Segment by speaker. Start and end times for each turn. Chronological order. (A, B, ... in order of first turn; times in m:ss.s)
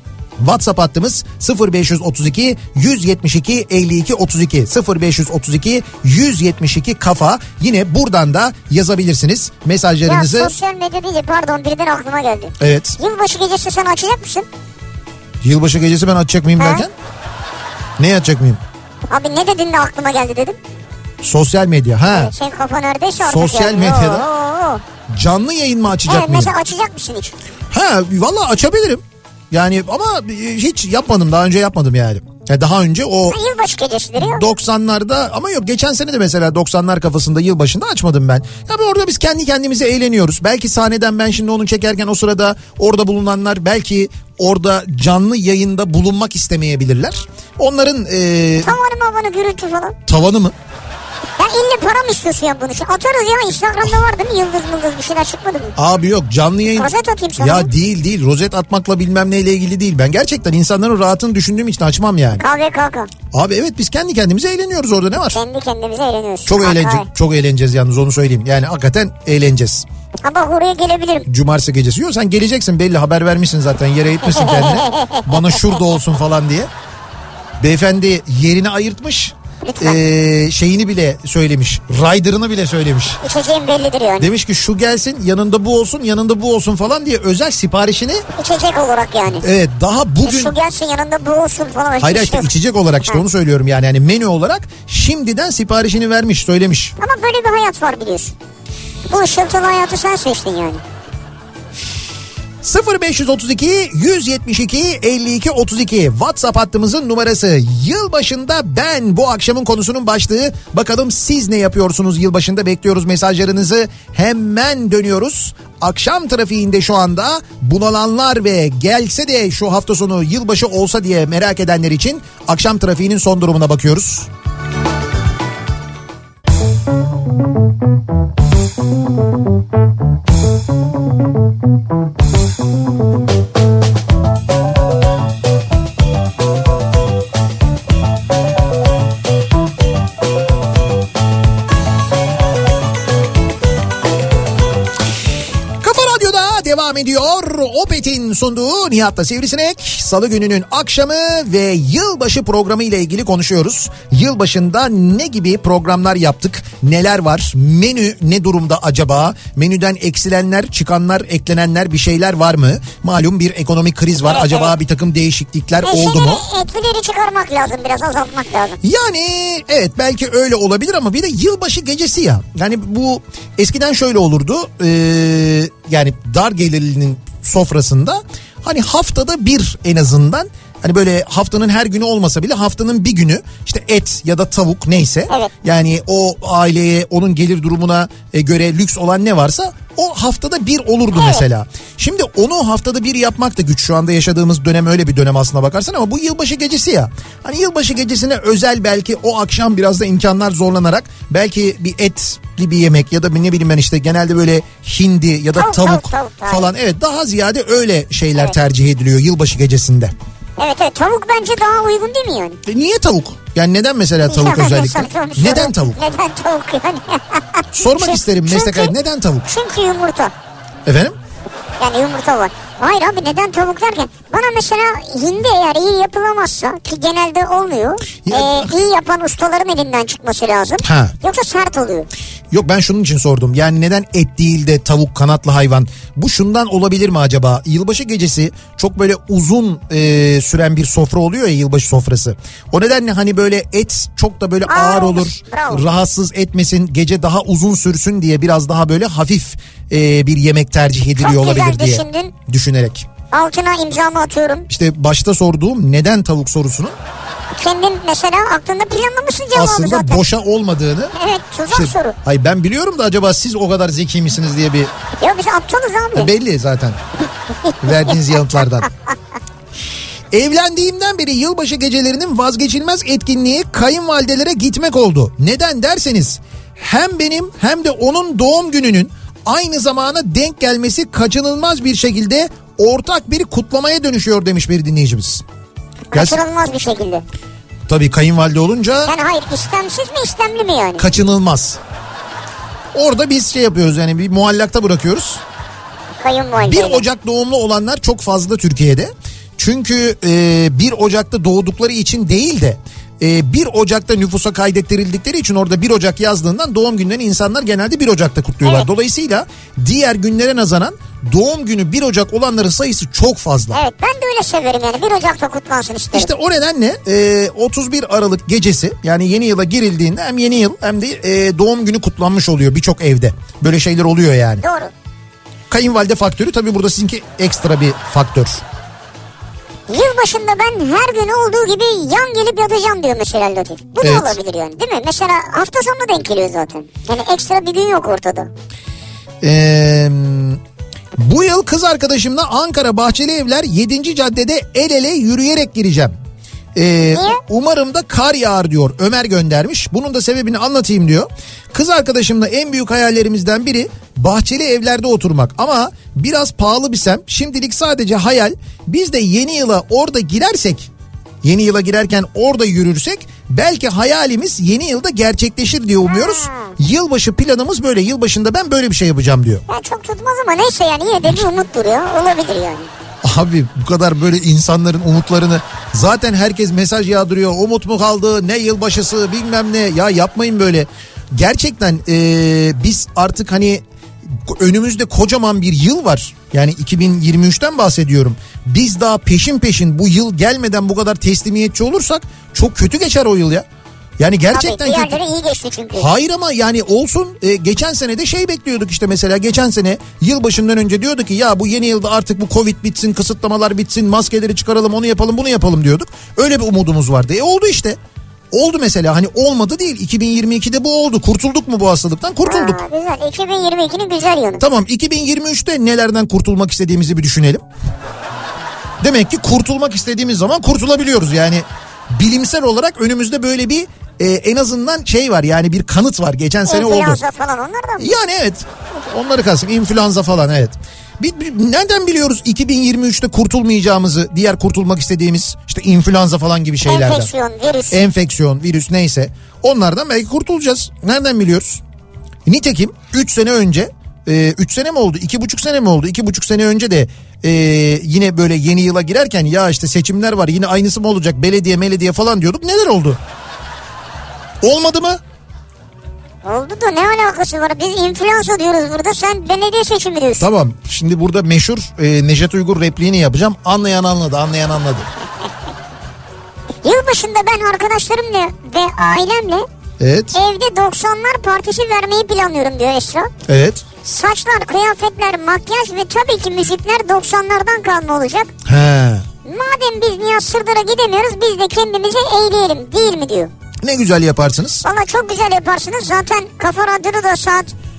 0:00.4-0:10.5 A
0:10.0-0:14.5 B
0:12.6-0:13.0 A
0:15.4-0:16.9 A
0:16.6-0:16.8 B
0:18.0-0:18.6 A
0:19.1-0:20.6 B
0:21.2-0:22.3 A
0:22.1-0:24.8 B
0:23.2-0:24.2 A
0:25.1-0:26.5 A
0:26.1-0:27.3 B
0:27.7-0:33.4 A
0:33.3-0:34.5 B
0:34.2-0:48.7 A
0:48.6-0:50.0 B
0:50.1-0:50.5 A
0:51.4-0:55.8 B
0:55.8-1:02.4 A
0:56.8-0:57.7 B
1:02.4-1:03.1 B
1:03.3-1:05.4 A
1:05.3-1:07.1 B
1:06.4-1:09.8 A
1:10.2-1:11.3 B
1:11.3-1:16.7 A
1:14.3-1:15.6 B
1:17.6-1:23.2 A
1:19.6-1:20.0 B
1:23.2-1:24.3 B
1:24.2-1:28.2 A
1:28.4-1:29.4 B
1:29.4-1:30.5 A
1:30.2-1:32.5 B
1:32.0-1:36.9 A
1:37.0-1:38.3 B
1:39.1-1:40.8 B
1:42.6-2:04.3 A
2:25.8-2:46.4 A
2:44.3-2:44.7 B
2:45.8-2:48.8 B
2:48.8-3:30.1 A
3:11.1-3:11.4 B
3:25.5-3:26.7 B
3:30.6-3:32.6 B
3:32.6-3:36.0 A
3:34.3-3:38.9 B
3:37.7-3:39.4 A
3:39.4-3:40.3 B
3:40.8-3:41.2 A
3:41.8-3:52.1 B
3:48.2-3:48.7 A
3:50.8-3:51.1 A
3:52.5-4:13.1 A
4:04.7-4:05.8 B
4:11.2-4:12.3 B
4:13.3-4:14.7 B
4:14.7-4:17.0 A
4:17.6-4:20.2 B
4:19.5-4:21.1 A
4:21.1-4:22.2 B
4:21.7-4:24.9 A
4:25.2-4:26.3 B
4:26.1-4:27.0 A
4:27.8-4:28.9 A
4:30.3-4:45.4 A
4:46.1-4:47.2 B
4:46.1-4:46.4 A
4:47.9-4:49.1 A
4:49.0-4:51.0 B
4:51.0-4:51.8 A
4:52.9-4:55.4 A
4:56.2-4:57.0 B
4:56.6-5:13.8 A
5:13.7-5:16.3 B
5:16.1-5:24.6 A
5:24.6-5:24.9 B
5:25.7-5:28.6 A
5:29.9-5:38.5 B
5:34.0-5:34.4 A
5:39.4-5:40.6 A
5:41.2-5:46.1 A
5:46.7-6:00.9 A
5:47.1-5:47.4 B
6:01.4-6:09.6 A
6:06.1-6:06.8 B
6:09.7-6:12.9 B
6:13.2-6:33.6 A
6:34.2-6:35.2 A
6:34.5-6:36.1 B
6:36.0-6:48.0 A
6:48.5-6:52.8 A
6:52.4-6:54.6 B
6:54.6-6:57.6 A
6:59.0-7:07.2 A
7:06.7-7:08.1 B
7:08.0-7:17.3 A
7:16.9-7:18.0 B
7:17.9-7:21.8 A
7:22.4-7:33.2 A
7:34.6-7:35.2 A
7:36.4-7:40.5 B
7:40.4-7:45.1 A
7:46.8-7:49.7 B
7:50.0-7:50.4 A
7:50.3-7:53.3 B
7:53.5-7:53.8 A
7:54.0-7:58.5 B
7:58.6-7:59.2 A
7:59.4-8:03.5 B
8:03.8-8:04.8 A
8:04.8-8:07.7 B